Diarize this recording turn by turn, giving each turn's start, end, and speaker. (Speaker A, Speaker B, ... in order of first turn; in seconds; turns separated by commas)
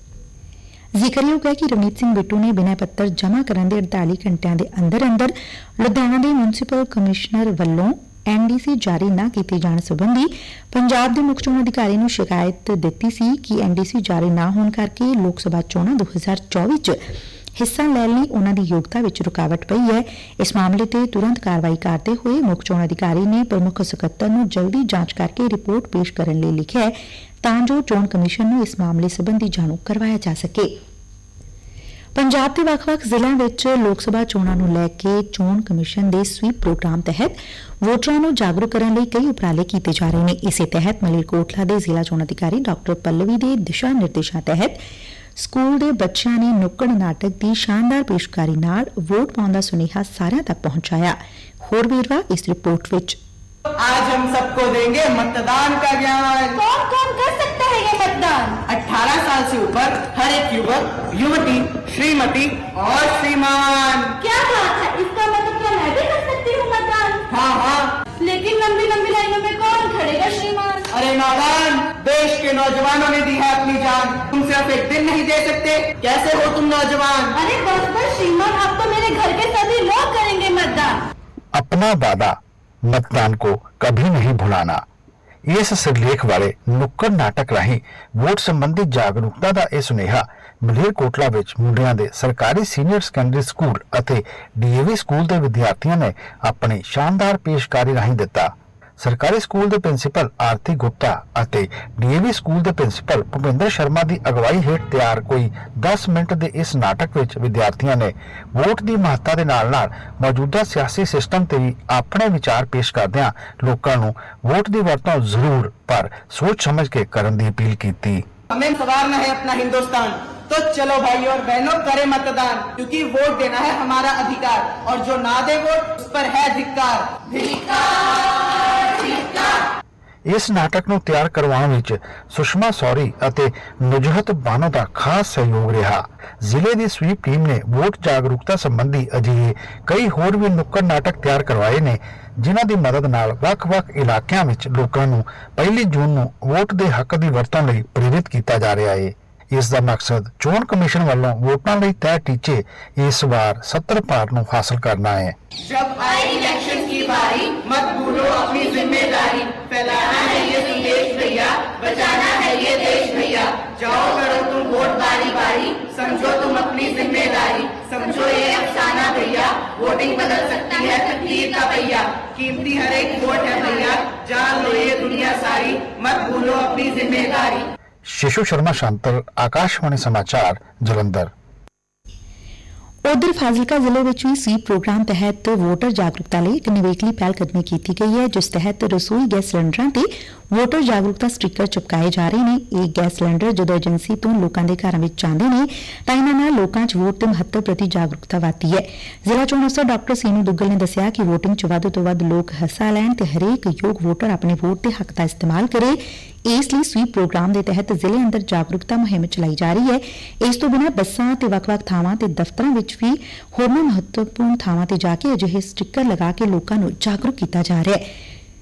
Speaker A: 1.0-17.0, Speaker A: 17.6-30.7, Speaker A: 32.1-44.8, Speaker A: 45.4-53.2, Speaker B: 53.8-56.6, Speaker C: 56.5-58.6, Speaker B: 58.7-64.2, Speaker C: 64.2-67.2, Speaker B: 67.3-68.0, Speaker C: 68.2-70.9, Speaker B: 70.9-77.3, Speaker C: 77.3-81.0, Speaker D: 81.5-82.3, Speaker D: 82.9-84.8, Speaker D: 85.5-118.2, Speaker B: 118.5-129.6, Speaker D: 130.3-155.3, Speaker B: 155.6-177.7, Speaker D: 178.1-181.3, Speaker A: 183.1-218.1